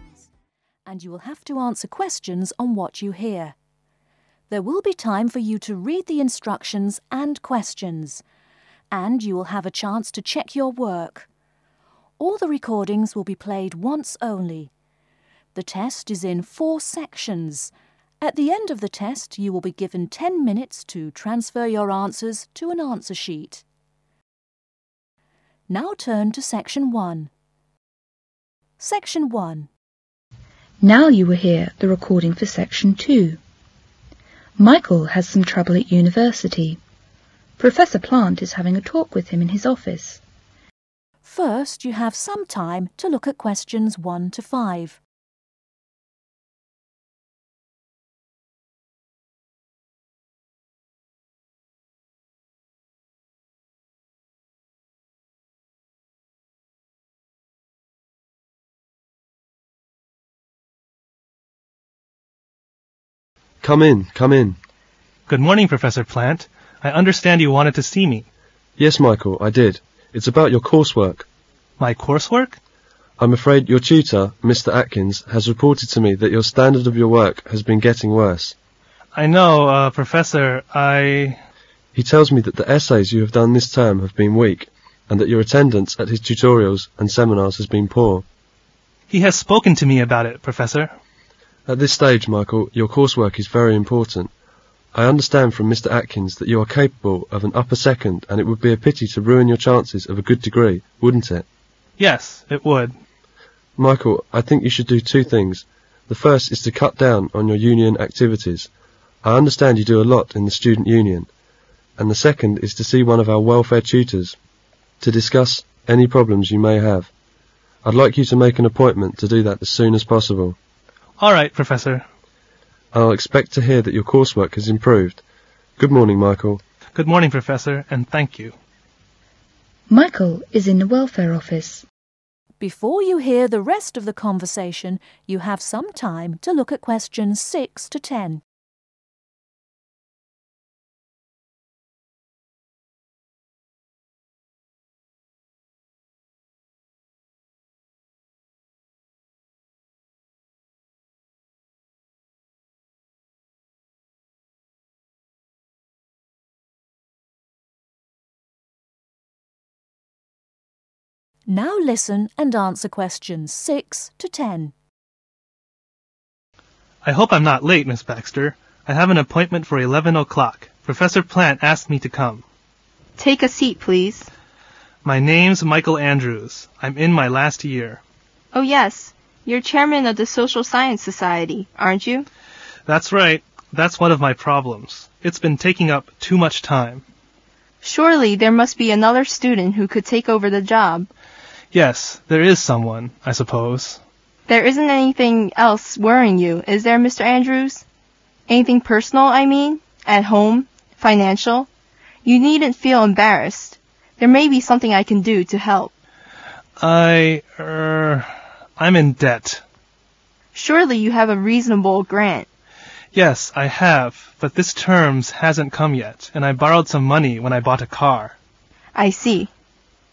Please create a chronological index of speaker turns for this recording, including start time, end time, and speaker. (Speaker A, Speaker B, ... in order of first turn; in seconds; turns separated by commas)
Speaker A: 0.8-3.6, Speaker A: 4.5-8.2, Speaker A: 8.9-11.3, Speaker A: 12.2-14.7, Speaker A: 15.5-23.6, Speaker A: 25.7-27.3, Speaker A: 28.8-29.7, Speaker B: 30.8-33.4, Speaker B: 34.6-36.8, Speaker B: 37.6-40.2, Speaker A: 41.2-45.0, Speaker C: 63.6-64.6, Speaker D: 65.3-68.3, Speaker C: 68.8-71.3, Speaker D: 71.8-72.6, Speaker C: 73.2-78.6, Speaker D: 79.2-81.4, Speaker C: 82.0-88.2, Speaker D: 89.1-90.9, Speaker C: 91.7-94.3, Speaker C: 94.9-101.5, Speaker D: 102.0-103.0, Speaker C: 103.8-108.7, Speaker C: 109.2-111.3, Speaker C: 112.0-114.4, Speaker C: 115.0-117.1, Speaker C: 117.8-120.6, Speaker D: 121.2-122.0, Speaker C: 122.9-125.2, Speaker C: 125.8-126.6, Speaker D: 126.9-128.6, Speaker B: 129.9-131.8, Speaker A: 132.6-138.4, Speaker A: 161.5-164.7, Speaker D: 167.0-172.4, Speaker E: 173.2-174.3, Speaker D: 175.0-178.0, Speaker E: 178.5-182.3, Speaker D: 182.9-187.1, Speaker E: 187.8-191.1, Speaker D: 191.7-194.0, Speaker E: 194.5-197.8, Speaker E: 198.5-201.7, Speaker E: 202.2-205.9, Speaker D: 206.8-209.6, Speaker E: 210.5-212.5, Speaker D: 213.1-218.4, Speaker E: 218.9-219.5